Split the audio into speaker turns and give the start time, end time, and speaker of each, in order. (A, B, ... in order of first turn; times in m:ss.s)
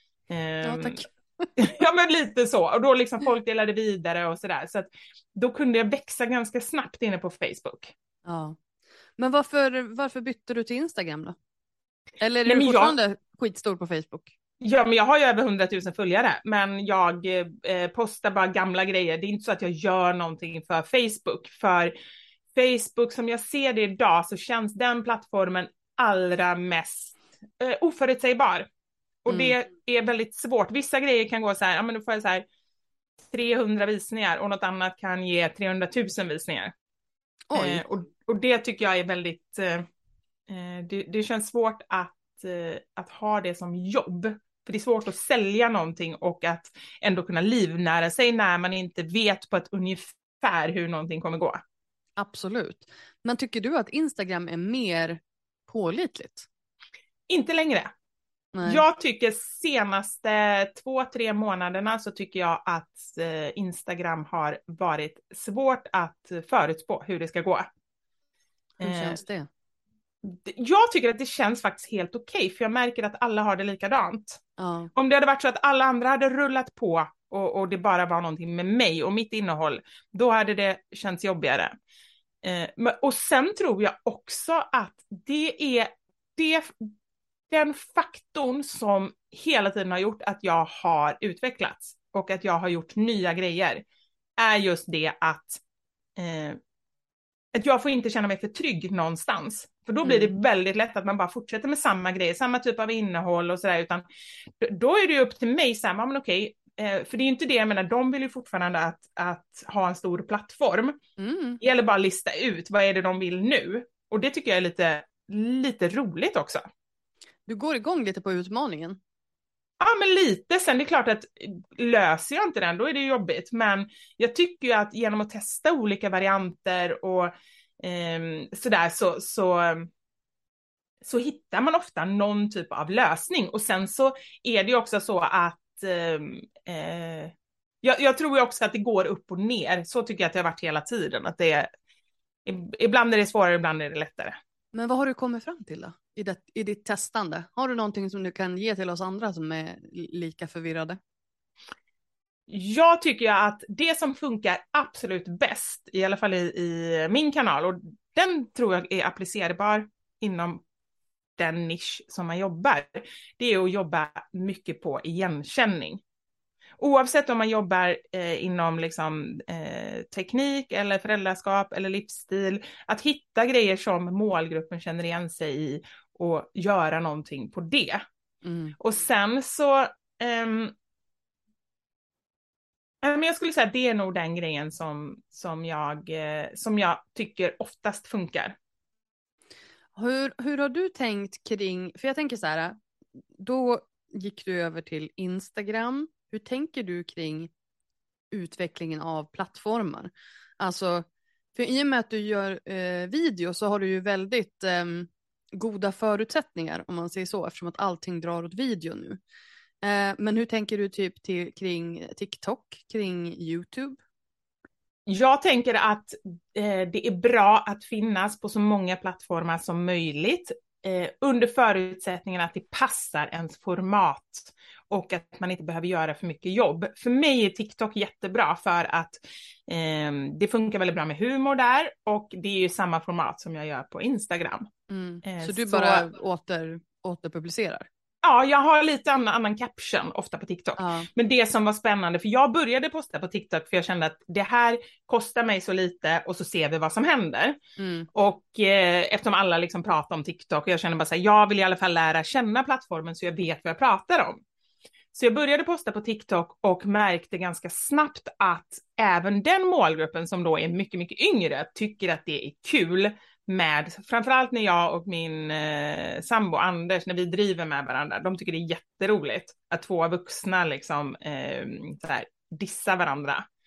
0:00.3-0:01.0 A
0:00.6-0:01.5 B
0:01.6-0:07.9 A
0:08.3-0:08.6 B
0:09.2-0:11.4 B
0:12.2-0:14.3 B
0:12.5-0:13.0 A
0:14.6-0:21.9 A
0:22.5-0:28.7 A
0:29.2-0:32.4 A
0:29.3-0:29.5 B
0:33.3-0:36.7 A
0:37.5-0:37.8 B
0:37.6-0:39.9 A
0:40.5-0:51.6 A
0:52.2-0:56.5 B
0:57.3-0:57.9 A
0:58.6-0:58.8 B
0:58.6-1:07.7 A
1:08.8-1:09.2 A
1:08.8-1:09.5 B
1:10.2-1:14.4 A
1:14.6-1:14.9 B
1:15.0-1:21.7 A
1:22.4-1:26.9 A
1:27.5-1:33.8 A
1:34.4-1:35.6 A
1:36.2-1:36.6 A
1:37.5-1:44.0 A
1:40.0-1:40.3 B
1:44.6-1:51.0 A
1:51.2-1:51.6 B
1:51.6-1:56.6 A
1:57.5-1:59.0 B
1:59.8-2:09.9 A
2:11.0-2:21.7 A
2:22.5-2:24.4 A
2:24.7-2:31.0 B
2:32.5-2:40.6 A
2:41.4-2:46.0 A
2:46.8-2:58.0 A
2:58.4-2:58.8 B
2:58.8-3:00.7 A
3:03.0-3:08.6 A
3:10.0-3:12.8 B
3:13.4-3:17.5 B
3:18.3-3:29.2 B
3:29.8-3:34.0 B
3:35.1-3:54.7 A
3:54.9-3:57.9 B
3:55.2-3:56.1 A
3:58.2-4:07.6 A
4:00.8-4:01.1 B
4:07.8-4:08.1 B
4:08.2-4:14.4 A
4:15.1-4:33.5 A